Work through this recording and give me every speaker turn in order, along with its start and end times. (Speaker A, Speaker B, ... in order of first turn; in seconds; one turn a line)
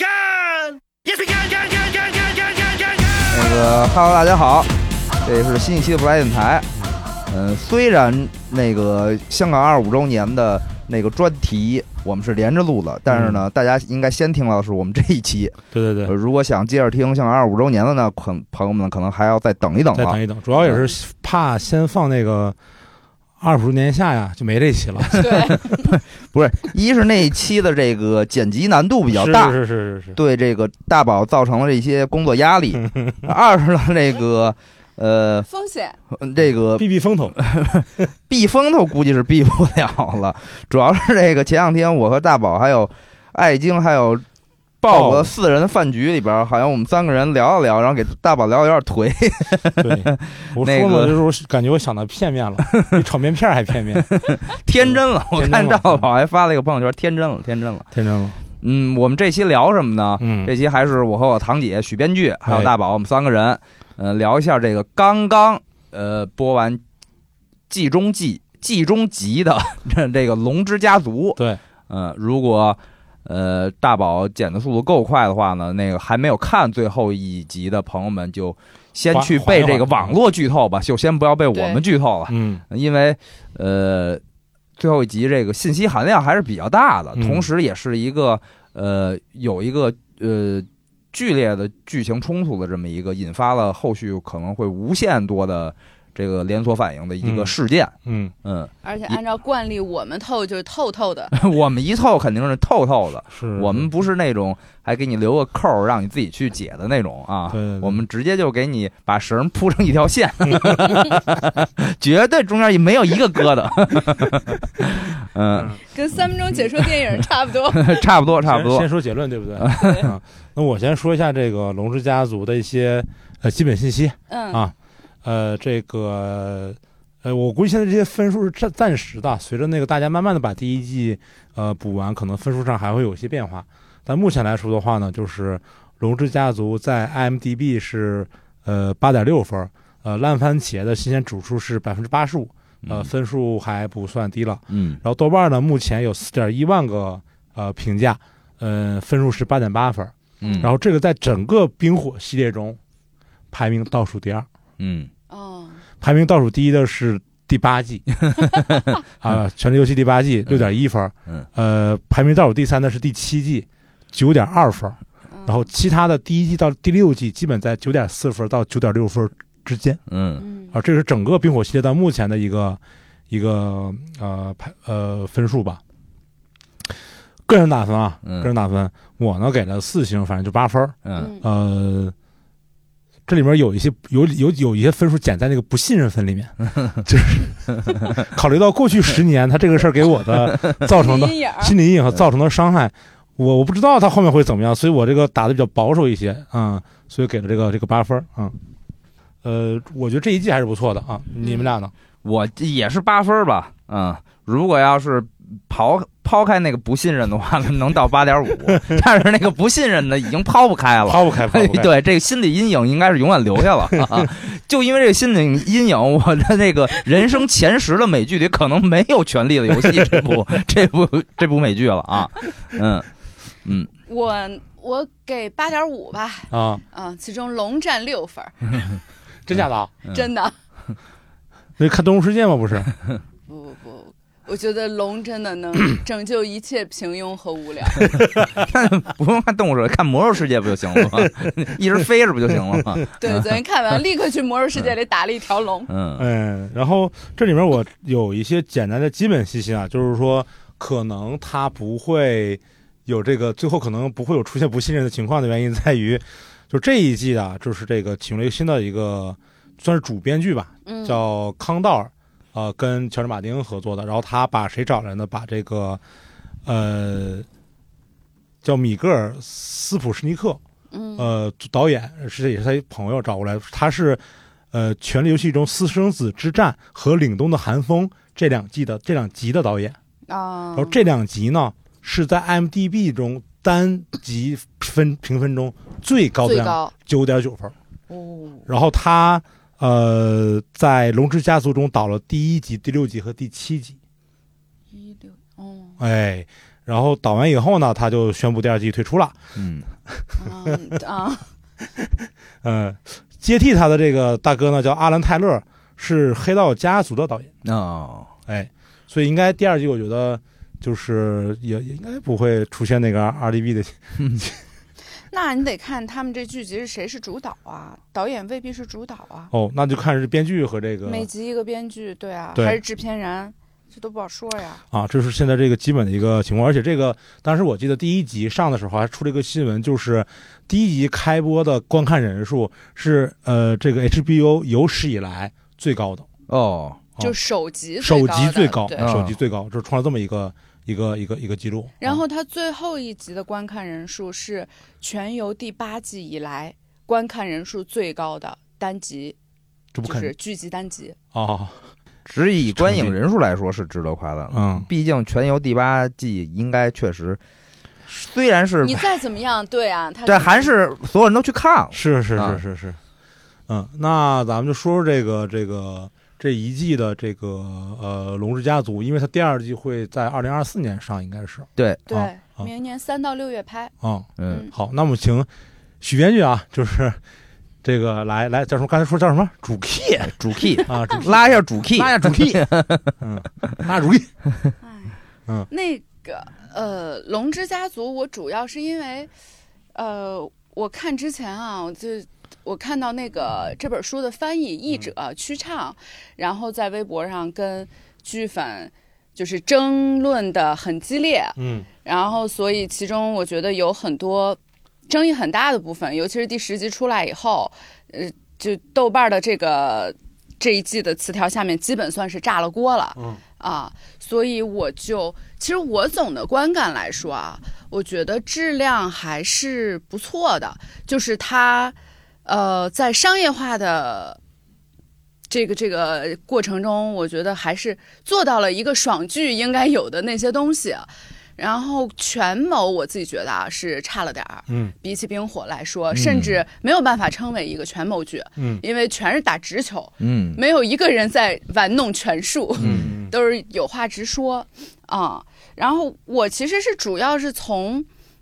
Speaker A: 1.3-2.0
Speaker B: 3.3-4.7
Speaker B: 5.2-6.7
Speaker B: 7.3-20.9
Speaker A: 13.1-13.4
Speaker A: 15.7-16.1
Speaker A: 19.9-22.6
Speaker A: 23.4-25.6
Speaker C: 25.1-26.0
Speaker B: 25.4-29.6
Speaker A: 29.1-30.1
Speaker B: 30.1-35.5
Speaker C: 35.5-36.0
Speaker B: 36.1-36.9
Speaker A: 36.8-37.4
Speaker B: 37.4-44.2
Speaker B: 44.8-51.2
Speaker A: 44.9-45.3
Speaker A: 49.8-54.2
Speaker B: 54.1-57.9
Speaker A: 54.8-56.0
Speaker A: 57.9-58.4
Speaker B: 58.6-66.8
Speaker A: 60.2-60.5
Speaker A: 62.5-62.7
Speaker B: 67.7-84.2
Speaker A: 79.1-80.2
Speaker C: 81.5-81.8
Speaker A: 82.3-82.6
Speaker B: 84.8-99.2
Speaker A: 87.2-87.5
Speaker A: 97.2-97.5
Speaker A: 98.1-98.3
Speaker C: 98.8-101.3
Speaker B: 101.3-115.8
Speaker A: 103.3-103.9
Speaker A: 107.5-108.0
Speaker A: 110.5-111.1
Speaker C: 115.9-118.0
Speaker B: 117.7-118.9
Speaker A: 118.4-124.7
Speaker B: 119.6-120.0
Speaker C: 119.8-120.1
Speaker C: 124.3-124.7
Speaker A: 125.2-152.8
Speaker B: 142.8-143.1
Speaker B: 144.7-145.0
Speaker B: 150.4-150.7
Speaker C: 150.4-150.7
Speaker A: 153.5-154.5
Speaker B: 154.8-155.1
Speaker C: 155.3-155.8
Speaker A: 156.0-158.1
Speaker B: 158.5-158.8
Speaker A: 159.2-170.0
Speaker C: 165.3-165.6
Speaker B: 170.1-170.5
Speaker C: 170.4-170.8
Speaker A: 170.7-175.8
Speaker A: 177.5-182.1
Speaker B: 178.2-178.5
Speaker B: 181.1-181.3
Speaker C: 181.2-181.4
Speaker A: 183.3-198.6
Speaker C: 190.9-191.8
Speaker A: 199.4-201.9
Speaker C: 201.4-201.7
Speaker B: 202.2-223.1
Speaker A: 211.1-211.9
Speaker B: 223.6-223.9
Speaker C: 224.1-228.9
Speaker A: 226.5-226.8
Speaker A: 229.5-229.9
Speaker B: 229.6-230.2
Speaker C: 230.1-230.5
Speaker A: 231.8-232.9
Speaker C: 233.5-238.2
Speaker B: 238.6-243.5
Speaker A: 242.7-243.0
Speaker C: 243.2-245.9
Speaker B: 245.9-246.2
Speaker A: 246.2-266.0
Speaker C: 260.9-261.2
Speaker A: 266.6-267.5
Speaker A: 268.6-270.6
Speaker C: 270.9-271.3
Speaker A: 271.2-274.2
Speaker A: 274.7-280.0
Speaker C: 280.3-281.0
Speaker A: 280.8-287.8
Speaker C: 286.4-286.9
Speaker C: 288.1-288.7
Speaker A: 288.7-294.0
Speaker C: 294.9-296.0
Speaker A: 296.0-299.4
Speaker B: 299.6-299.9
Speaker C: 300.4-301.5
Speaker A: 302.6-307.5
Speaker B: 307.6-308.3
Speaker A: 308.5-314.6
Speaker C: 315.3-319.5
Speaker A: 319.5-321.3
Speaker C: 321.1-324.8
Speaker A: 324.9-336.3
Speaker B: 336.5-337.1
Speaker C: 337.2-339.1
Speaker A: 338.0-342.2
Speaker B: 339.0-339.4
Speaker C: 342.0-349.4
Speaker A: 349.9-350.3
Speaker C: 350.1-351.2
Speaker A: 351.3-351.8
Speaker B: 352.3-357.4
Speaker A: 352.7-353.2
Speaker A: 354.5-354.9
Speaker B: 358.1-359.1
Speaker C: 358.8-360.7
Speaker B: 360.3-362.6
Speaker A: 361.9-363.0
Speaker A: 363.7-372.7
Speaker B: 371.8-372.0
Speaker C: 372.1-373.9
Speaker A: 374.0-375.5
Speaker B: 374.4-374.6
Speaker C: 374.5-374.7
Speaker A: 376.0-377.2
Speaker A: 377.8-382.6
Speaker B: 380.3-383.2
Speaker C: 380.7-381.2
Speaker A: 383.2-384.3
Speaker C: 384.8-385.2
Speaker C: 385.7-389.3
Speaker C: 389.9-421.9
Speaker A: 401.6-401.9
Speaker C: 422.5-424.4
Speaker C: 425.5-448.1
Speaker A: 434.7-434.9
Speaker A: 436.1-436.4
Speaker A: 438.6-438.8
Speaker B: 440.2-440.6
Speaker A: 442.8-443.3
Speaker B: 442.8-443.1